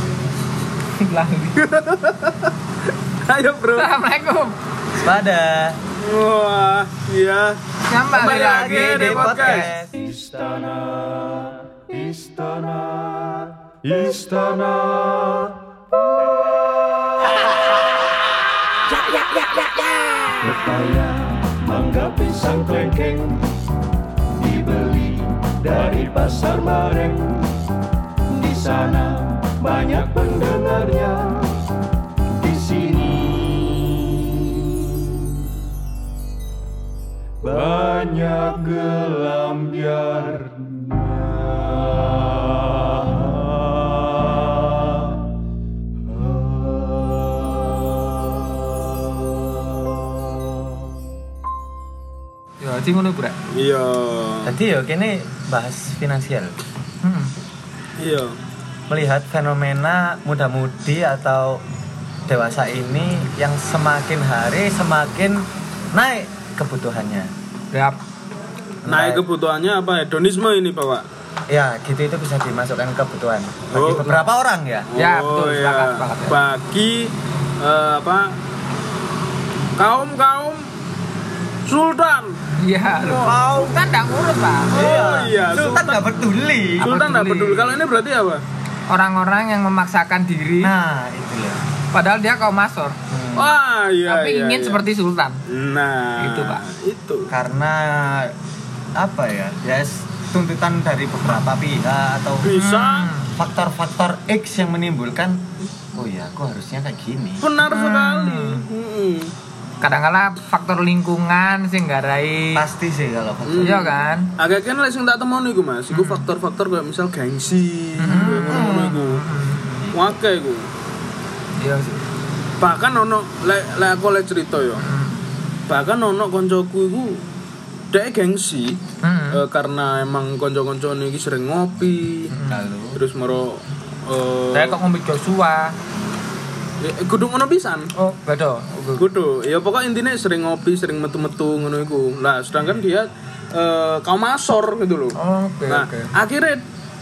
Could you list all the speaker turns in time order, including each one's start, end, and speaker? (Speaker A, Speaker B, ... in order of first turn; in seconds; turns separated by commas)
Speaker A: 1.0-1.6, Speaker B: 1.6-2.5, Speaker B: 3.2-3.9, Speaker A: 3.7-4.5, Speaker C: 5.0-5.8, Speaker B: 6.0-7.6, Speaker A: 7.9-9.6, Speaker B: 8.1-9.7, Speaker C: 8.1-9.9, Speaker D: 9.9-15.6, Speaker D: 20.4-23.5, Speaker D: 24.4-27.5, Speaker D: 28.3-31.6, Speaker D: 32.4-35.2, Speaker D: 37.4-43.5, Speaker A: 52.6-53.4, Speaker B: 53.5-54.6, Speaker C: 54.4-56.5, Speaker A: 57.0-57.3, Speaker B: 58.0-58.4, Speaker C: 58.9-61.6, Speaker C: 62.3-67.3, Speaker A: 67.7-68.0, Speaker C: 68.8-69.2, Speaker B: 68.9-71.0, Speaker C: 71.5-74.9, Speaker B: 73.7-74.3, Speaker B: 74.9-78.3, Speaker A: 74.9-76.4, Speaker B: 79.8-80.7, Speaker B: 81.6-82.4, Speaker A: 82.6-84.7, Speaker C: 83.0-83.8, Speaker C: 84.7-86.9, Speaker B: 84.7-86.0, Speaker B: 86.8-88.4, Speaker A: 86.8-87.8, Speaker A: 88.9-90.7, Speaker C: 90.6-91.6, Speaker A: 91.9-93.0, Speaker C: 93.1-93.5, Speaker B: 93.3-94.8, Speaker A: 94.0-95.4, Speaker B: 95.5-97.3, Speaker A: 96.2-96.6, Speaker C: 97.3-98.3, Speaker C: 99.0-102.5, Speaker B: 102.4-103.1, Speaker A: 102.5-103.3, Speaker C: 103.4-107.5, Speaker B: 107.4-109.3, Speaker A: 107.6-108.6, Speaker A: 109.8-112.6, Speaker C: 112.5-113.8, Speaker B: 113.5-119.2, Speaker A: 113.6-114.3, Speaker A: 115.9-116.3, Speaker A: 118.0-119.9, Speaker C: 118.1-119.0, Speaker B: 119.9-120.7, Speaker A: 121.6-122.1, Speaker B: 122.6-124.8, Speaker A: 124.8-125.3, Speaker B: 125.7-127.2, Speaker B: 127.9-132.3, Speaker A: 129.0-129.4, Speaker A: 132.3-132.6, Speaker C: 132.5-133.0, Speaker B: 132.9-134.8, Speaker A: 134.5-135.7, Speaker B: 136.8-137.9, Speaker A: 137.9-139.1, Speaker B: 139.0-146.6, Speaker A: 145.2-146.1